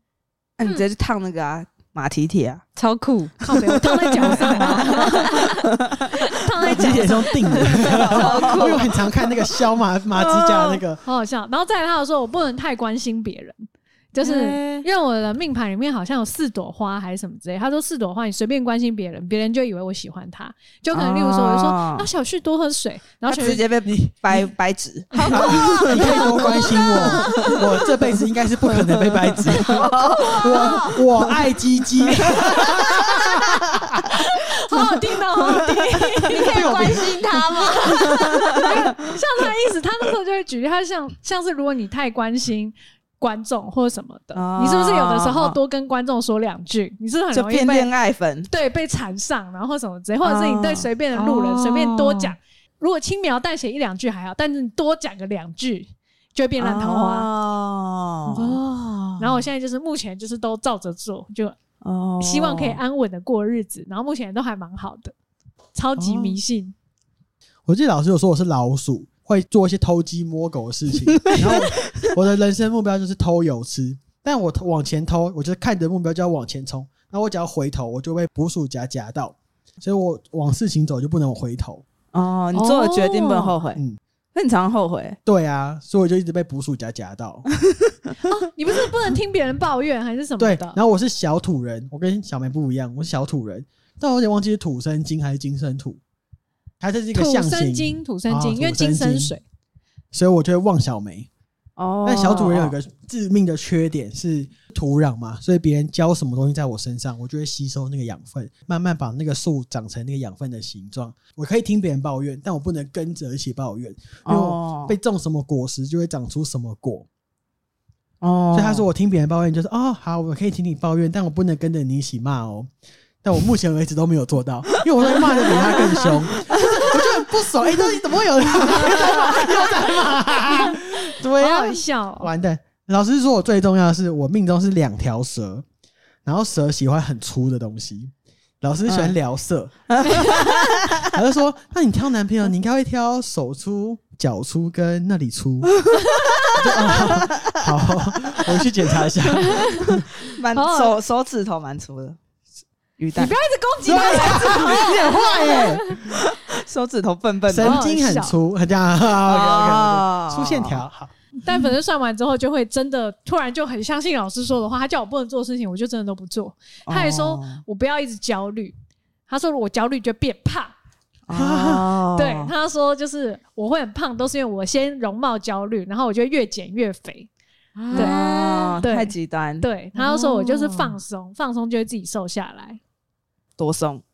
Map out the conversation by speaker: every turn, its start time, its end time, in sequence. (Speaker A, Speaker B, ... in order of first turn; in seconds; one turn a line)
Speaker A: 0.6-2.6
Speaker B: 2.8-3.3
Speaker C: 3.4-5.5
Speaker A: 3.8-5.1
Speaker B: 4.3-5.5
Speaker A: 5.7-6.0
Speaker C: 6.2-7.6
Speaker D: 6.7-11.0
Speaker B: 7.6-8.9
Speaker A: 7.8-8.9
Speaker A: 10.1-10.8
Speaker C: 11.0-23.6
Speaker B: 14.2-14.9
Speaker A: 20.9-22.1
Speaker A: 23.3-26.5
Speaker D: 23.9-24.4
Speaker B: 25.1-27.6
Speaker D: 25.3-34.0
Speaker A: 28.7-31.0
Speaker B: 29.6-31.0
Speaker A: 32.1-32.4
Speaker C: 32.5-33.2
Speaker C: 34.0-36.7
Speaker B: 36.3-38.7
Speaker D: 36.4-37.2
Speaker C: 37.7-47.9
Speaker A: 44.3-45.6
Speaker A: 47.3-48.5
Speaker C: 48.5-57.3
Speaker A: 50.2-50.9
Speaker B: 51.1-52.3
Speaker A: 56.6-58.6
Speaker B: 58.3-59.4
Speaker C: 59.2-61.6
Speaker A: 61.8-62.8
Speaker C: 62.2-65.1
Speaker C: 65.7-66.7
Speaker D: 66.0-66.4
Speaker D: 67.7-81.8
Speaker A: 71.2-72.1
Speaker A: 82.1-83.8
Speaker C: 82.5-83.5
Speaker A: 84.3-85.2
Speaker D: 85.3-87.5
Speaker C: 88.2-90.8
Speaker D: 90.4-96.0
Speaker D: 96.8-99.3
Speaker C: 97.1-99.4
Speaker D: 100.1-101.3
Speaker A: 101.8-102.8
Speaker D: 102.0-117.1
Speaker A: 114.2-115.0
Speaker A: 118.2-118.8
Speaker D: 118.5-122.7
Speaker D: 123.2-135.7
Speaker A: 126.5-127.0
Speaker C: 130.5-130.8
Speaker C: 131.4-132.3
Speaker D: 136.2-145.7
Speaker A: 138.9-139.2
Speaker A: 139.9-141.1
Speaker A: 145.9-147.5
Speaker D: 146.6-150.1
Speaker C: 149.5-149.8
Speaker A: 149.9-152.2
Speaker C: 150.5-150.9
Speaker A: 153.0-153.3
Speaker C: 153.2-155.8
Speaker D: 153.8-156.0
Speaker A: 156.1-157.8
Speaker D: 157.5-161.1
Speaker C: 157.6-158.4
Speaker A: 159.2-160.8
Speaker C: 161.4-168.8
Speaker A: 166.9-167.6
Speaker C: 169.3-170.7
Speaker A: 171.3-172.5
Speaker D: 171.3-171.8
Speaker C: 172.1-177.3
Speaker B: 177.8-178.8
Speaker C: 177.9-178.2
Speaker A: 177.9-179.7
Speaker C: 178.8-182.8
Speaker B: 179.9-181.0
Speaker A: 183.6-184.0